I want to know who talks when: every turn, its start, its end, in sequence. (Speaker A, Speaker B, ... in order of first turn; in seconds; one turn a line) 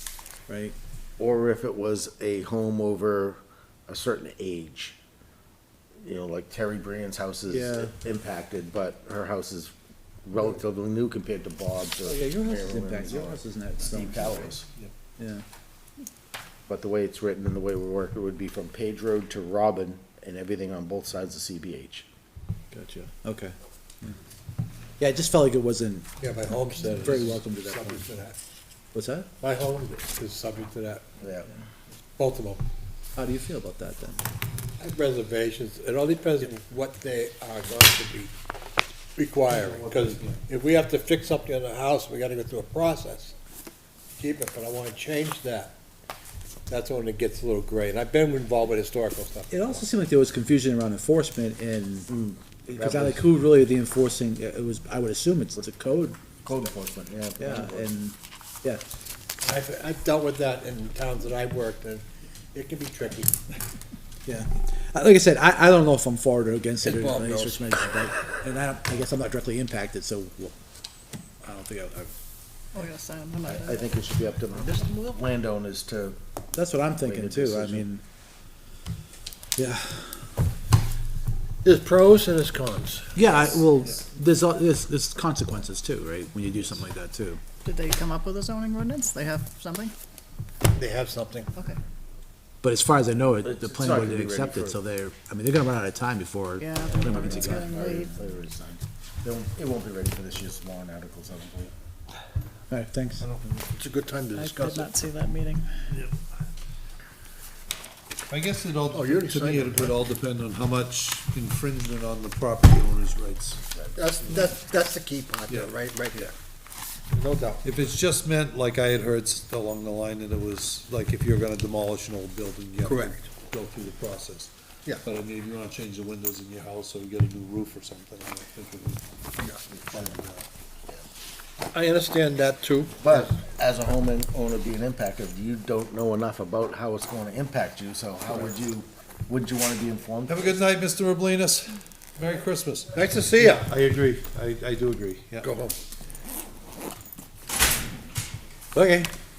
Speaker A: 0.5-0.7
Speaker B: 1.2-5.0
Speaker B: 6.0-14.7
Speaker A: 7.5-7.9
Speaker A: 12.0-14.5
Speaker A: 15.2-15.4
Speaker B: 16.7-22.1
Speaker A: 22.7-24.2
Speaker A: 25.0-26.1
Speaker C: 26.2-28.4
Speaker A: 26.8-28.1
Speaker A: 28.9-29.3
Speaker C: 29.4-31.0
Speaker B: 31.2-31.5
Speaker C: 32.2-32.6
Speaker A: 33.1-34.2
Speaker C: 34.8-38.3
Speaker C: 39.1-43.3
Speaker D: 39.5-40.5
Speaker C: 44.2-45.8
Speaker C: 46.7-49.8
Speaker A: 49.5-52.1
Speaker B: 52.1-53.2
Speaker A: 52.7-56.2
Speaker B: 56.4-57.9
Speaker A: 57.4-58.8
Speaker C: 59.4-63.4
Speaker A: 64.2-70.6
Speaker C: 66.8-67.6
Speaker A: 71.4-72.1
Speaker E: 72.7-73.9
Speaker B: 73.5-76.2
Speaker C: 74.5-75.2
Speaker A: 76.5-78.0
Speaker B: 77.0-77.8
Speaker A: 79.6-80.2
Speaker C: 81.6-83.7
Speaker A: 83.1-87.4
Speaker E: 87.6-89.9
Speaker C: 90.7-91.5
Speaker A: 92.6-97.7
Speaker B: 93.4-94.8
Speaker E: 96.6-98.1
Speaker B: 97.0-101.7
Speaker A: 102.7-103.7
Speaker C: 103.8-104.9
Speaker E: 104.3-105.7
Speaker D: 105.9-106.1
Speaker D: 108.3-113.7
Speaker C: 108.9-110.0
Speaker C: 113.9-116.3
Speaker D: 115.5-116.3
Speaker C: 117.1-117.6
Speaker D: 117.6-129.1
Speaker C: 122.8-123.3
Speaker D: 129.8-130.5
Speaker C: 131.7-133.3
Speaker B: 133.0-140.5
Speaker D: 140.3-145.5
Speaker C: 142.9-143.7
Speaker C: 145.4-145.8
Speaker A: 148.7-149.1